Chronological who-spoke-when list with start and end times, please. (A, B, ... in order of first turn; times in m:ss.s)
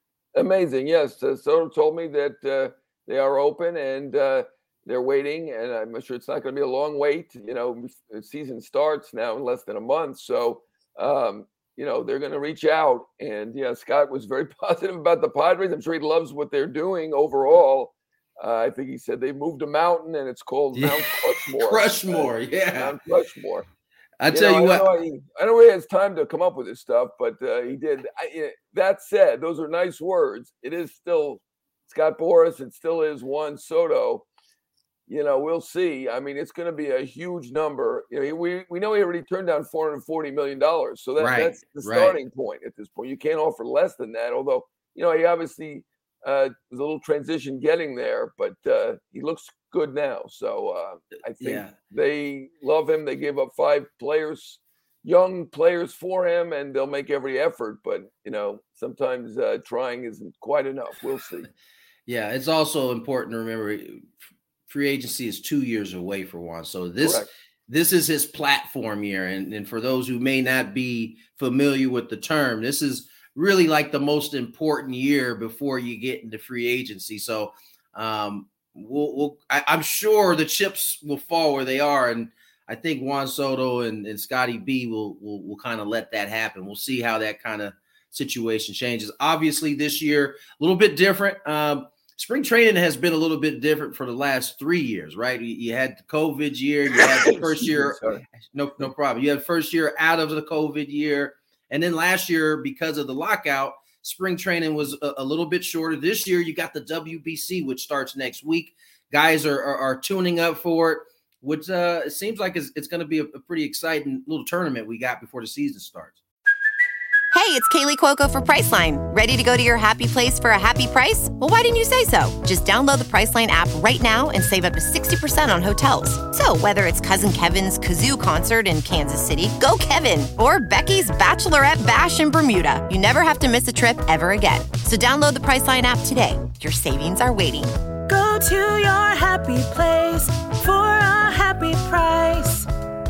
0:00.4-0:23.6 A
0:20.7-0:23.0 B
0:24.2-0:24.9 B
0:24.3-0:34.3 A
0:35.1-1:01.5 A
0:41.2-0:42.2 B
0:51.4-0:51.8 B
1:02.1-1:04.1 B
1:04.7-1:38.0 B
1:07.0-1:07.3 A
1:36.9-1:38.2 A
1:38.5-1:56.2 B
1:57.3-2:17.8 C
2:18.1-2:22.7 D